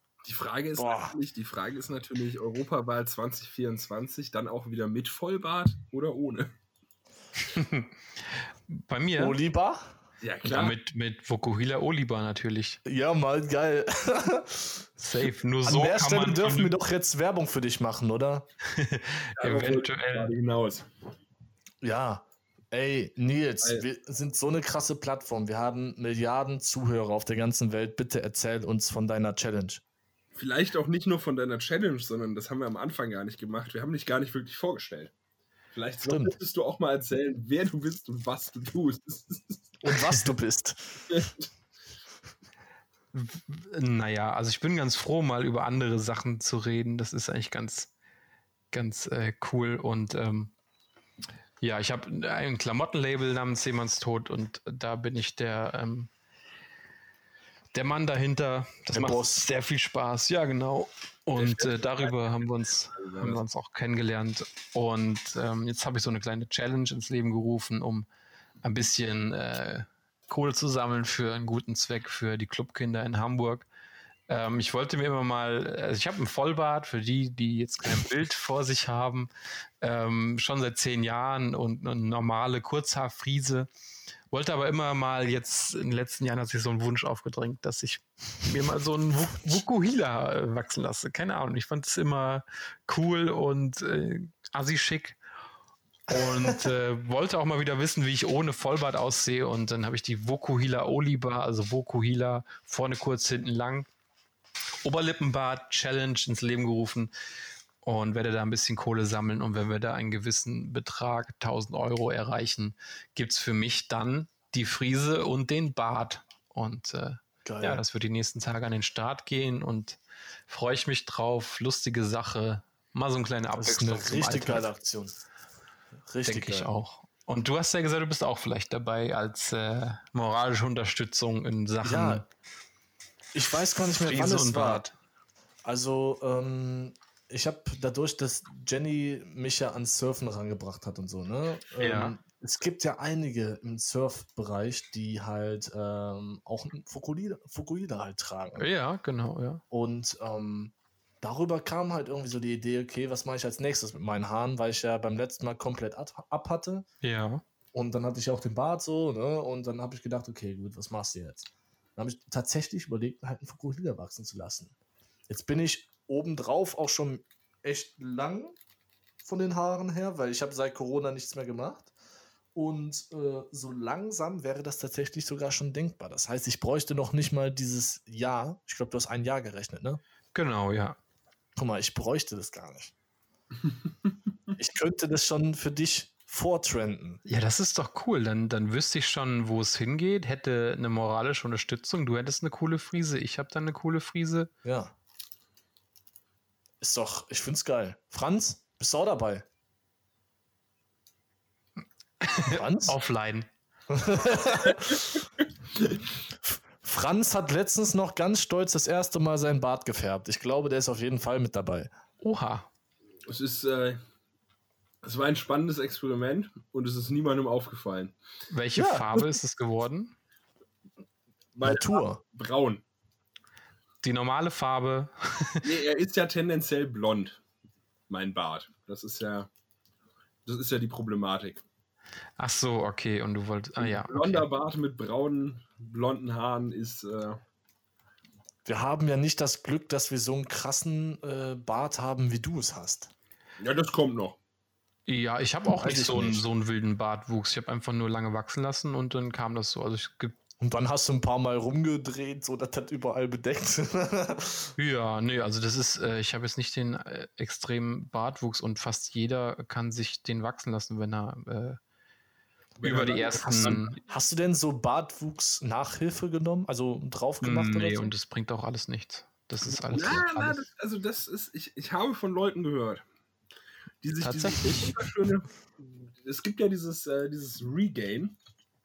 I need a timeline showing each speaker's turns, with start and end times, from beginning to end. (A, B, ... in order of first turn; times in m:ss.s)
0:00.2-0:06.5 A
0:00.8-0:01.2 B
0:07.4-0:07.9 C
0:08.7-0:09.4 C
0:09.2-0:09.9 B
0:10.2-0:10.8 A
0:10.4-0:12.8 C
0:12.8-0:18.5 B
0:15.0-0:16.8 C
0:18.6-0:20.3 C
0:19.4-0:20.9 A
0:21.8-0:29.8 B
0:30.3-0:35.1 A
0:35.7-0:39.7 A
0:36.0-0:36.4 B
0:39.8-0:41.3 B
0:43.1-0:47.9 C
0:48.7-0:50.5 C
0:51.6-0:56.1 C
0:57.7-1:08.1 C
0:58.9-0:59.5 B
1:01.4-1:03.4 A
1:08.6-1:13.7 C
1:14.3-1:19.3 C
1:19.8-1:23.7 C
1:24.3-1:35.2 C
1:36.1-1:43.9 C
1:36.1-1:36.7 B
1:44.8-1:47.1 C
1:47.8-2:04.7 C
1:57.4-1:57.8 B
2:03.6-2:05.2 B
2:06.1-2:06.7 B
2:06.2-2:12.3 C
2:11.8-2:12.2 B
2:13.3-2:14.8 B
2:13.9-2:15.0 C
2:15.6-2:28.7 B
2:21.8-2:22.1 C
2:28.6-2:29.6 C
2:29.7-2:36.8 B
2:37.0-2:37.4 C
2:37.7-2:44.7 B
2:45.3-2:48.6 B
2:49.2-2:51.9 B
2:52.6-3:00.0 B
3:00.3-3:01.0 C
3:01.6-3:02.9 B
3:04.6-3:07.2 B
3:07.2-3:14.5 C
3:14.6-3:14.9 B
3:16.8-3:19.5 B
3:22.2-3:23.5 C
3:22.5-3:23.0 B
3:23.9-3:25.2 B
3:26.5-3:31.9 B
3:32.2-3:32.7 C
3:33.3-3:34.0 A
3:35.0-3:38.1 A
3:38.5-3:40.1 C
3:38.8-3:39.2 B
3:41.6-3:42.8 A
3:41.6-3:42.2 B
3:44.0-3:45.7 C
3:45.6-3:47.4 A
3:48.1-3:49.5 A
3:50.5-3:51.6 A
3:52.4-3:54.5 C
3:53.8-3:57.4 A
3:58.6-4:03.1 B
4:03.6-4:04.4 A
4:05.1-4:10.4 C
4:05.7-4:06.5 B
4:10.6-4:14.7 B
4:14.8-4:21.8 C
4:22.8-4:24.0 A
4:22.8-4:24.0 C
4:23.5-4:28.1 B
4:27.4-4:30.7 C
4:29.9-4:33.0 A
4:34.0-4:38.4 A
4:34.2-4:35.0 C